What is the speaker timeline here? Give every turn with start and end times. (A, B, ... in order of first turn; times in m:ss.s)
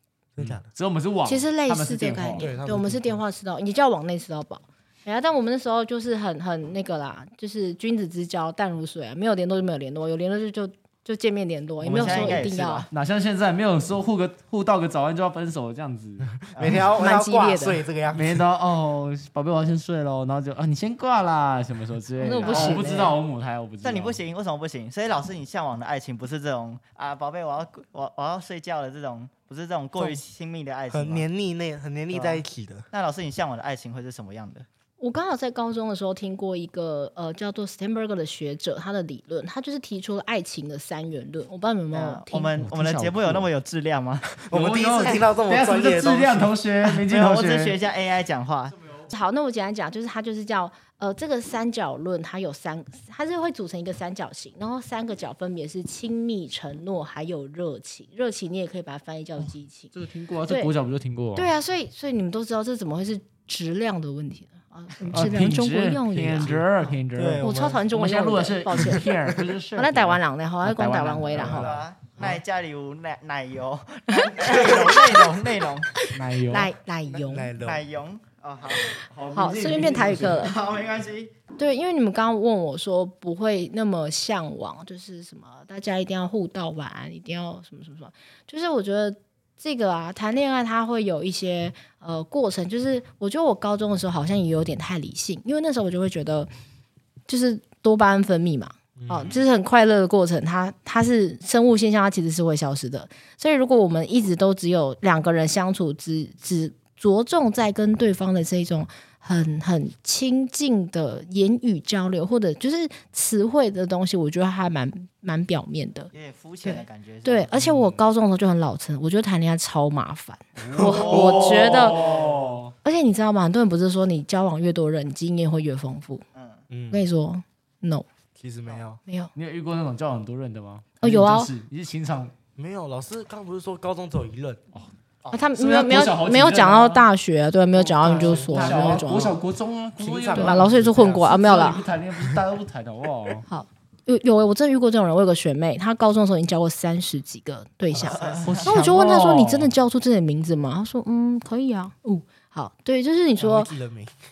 0:00.4-0:00.7 A
0:00.7-0:02.5 B
0:01.2-0:12.9 C
0:02.4-0:03.2 A
0:11.8-0:12.9 D
0:12.9-0:16.3 B
0:16.5-0:16.9 D
0:16.6-0:18.4 A
0:17.0-0:17.8 C
0:18.1-0:24.2 B
0:22.2-0:23.2 C
0:22.4-0:22.9 D
0:23.8-0:31.2 D
0:30.9-0:32.9 A
0:32.1-0:34.7 D
0:35.0-0:42.6 C
0:41.9-0:44.4 D
0:42.6-0:43.5 B
0:44.5-0:46.6 A
0:44.5-0:47.8 B
0:47.1-0:48.8 D
0:49.1-0:59.9 C
0:59.4-1:01.5 B
1:00.5-1:00.7 C
1:01.4-1:09.1 C
1:05.1-1:11.8 B
1:07.2-1:07.8 A
1:09.8-1:11.7 C
1:11.4-1:12.4 A
1:11.5-1:16.0 D
1:14.2-1:15.4 C
1:16.0-1:17.5 C
1:16.1-1:16.7 B
1:17.1-1:17.9 A
1:17.6-1:21.3 D
1:19.2-1:20.4 B
1:19.3-1:20.6 C
1:21.6-1:36.5 C
1:37.3-1:56.1 C
1:39.0-1:39.4 A
1:56.1-1:57.5 D
1:56.6-2:02.1 C
1:57.6-1:58.0 B
2:00.6-2:02.7 B
2:00.8-2:02.4 D
2:02.8-2:06.2 C
2:06.3-2:06.6 D
2:06.7-2:07.1 A
2:06.9-2:08.1 C
2:08.4-2:09.0 A
2:09.1-2:09.3 C
2:09.4-2:12.3 B
2:11.0-2:11.5 C
2:12.6-2:14.6 A
2:15.3-2:19.4 C
2:15.6-2:17.0 B
2:17.7-2:23.4 B
2:18.2-2:19.3 A
2:20.0-2:21.2 A
2:20.3-2:21.8 C
2:23.5-2:33.7 C
2:28.0-2:28.8 D
2:28.4-2:29.7 B
2:33.4-2:34.1 A